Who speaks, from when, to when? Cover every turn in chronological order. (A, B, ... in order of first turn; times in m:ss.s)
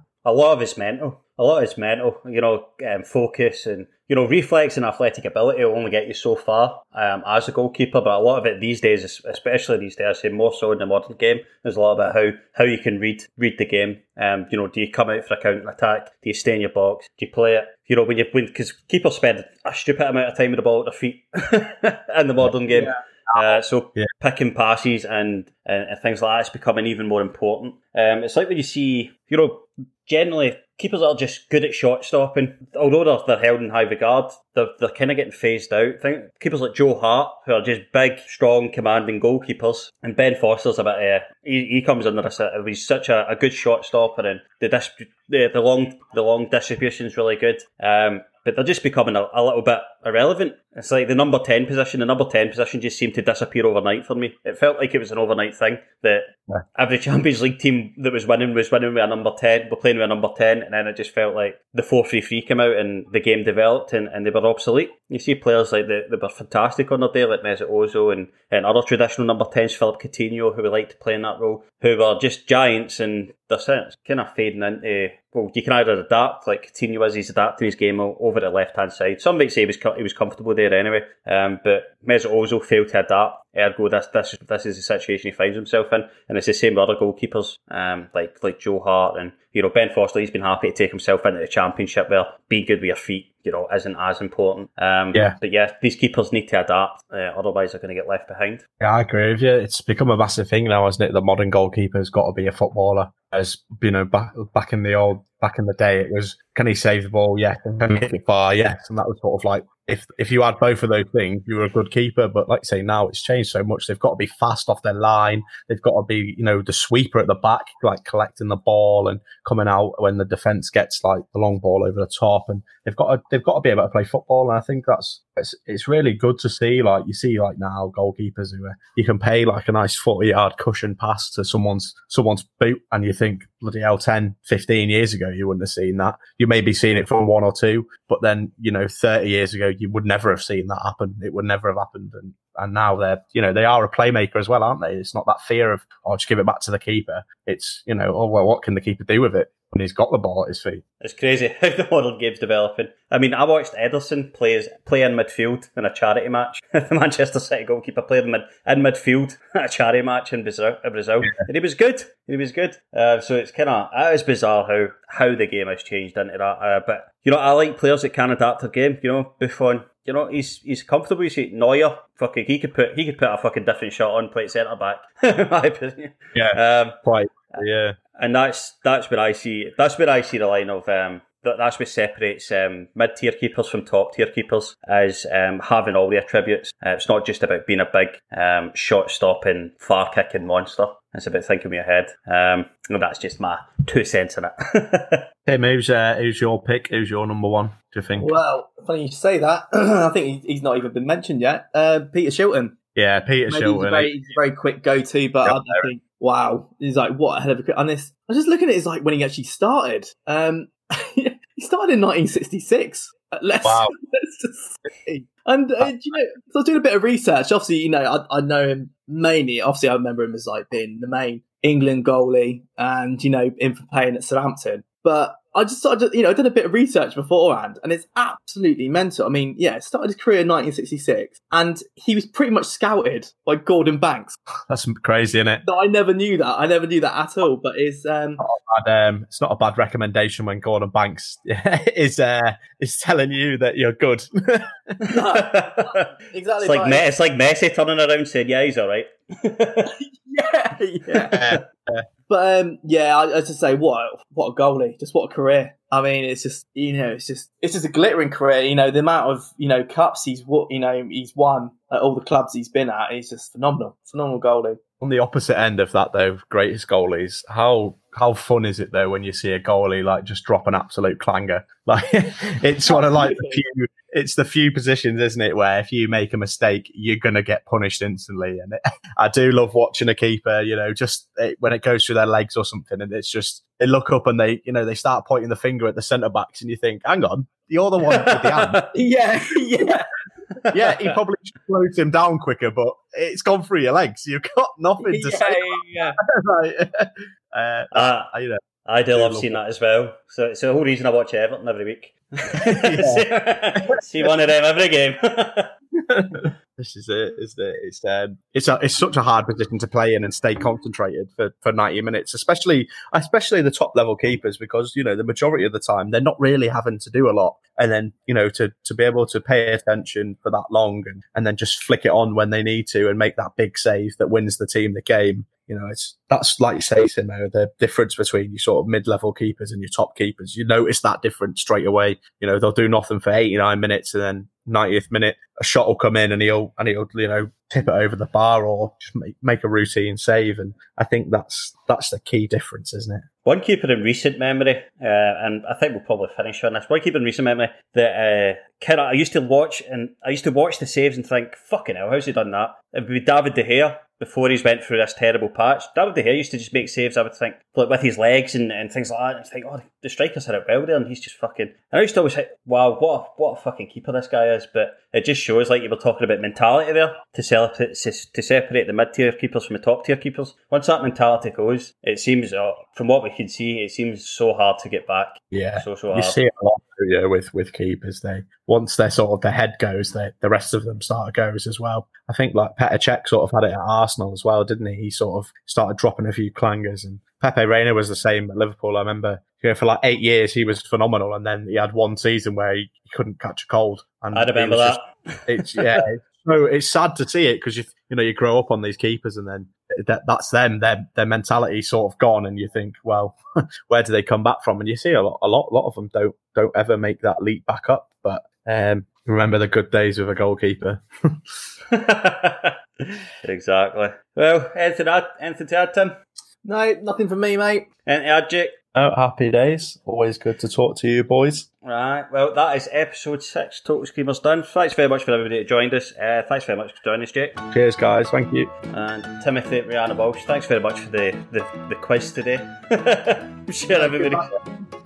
0:00.2-1:38.6 A
0:22.7-0:23.0 B
1:38.8-2:30.8 C
2:31.0-2:57.0 A
2:56.3-2:58.0 C
2:58.2-3:15.2 A
3:15.4-3:18.3 C
3:18.2-3:22.7 B
3:22.9-3:24.1 C
3:23.5-3:54.4 B
3:25.4-3:25.8 C
3:33.6-3:33.9 C
3:54.7-3:55.6 C
3:55.6-3:58.4 B
3:58.4-4:04.8 C
4:05.1-4:07.0 B
4:05.2-4:06.0 A
4:06.6-4:09.9 A
4:10.0-4:11.4 B
4:11.3-4:12.0 C
4:12.3-4:24.8 B
4:25.0-4:48.8 C
4:32.9-4:33.6 B
4:48.1-4:48.8 A
4:48.9-4:50.0 B
4:50.7-4:51.2 A
4:50.7-4:59.6 C
4:55.0-4:56.2 B
4:57.9-4:58.3 A
4:58.8-5:05.7 A
5:02.7-5:03.2 C
5:06.1-5:43.3 C
5:43.4-6:16.4 A
6:15.5-6:51.4 C
6:34.3-6:36.0 A
6:51.9-6:56.2 A
6:56.6-6:57.8 B
6:58.0-6:58.7 A
6:58.9-7:01.7 C
7:01.8-7:07.6 A
7:07.7-7:08.7 C
7:08.9-7:14.4 A
7:13.9-7:14.5 B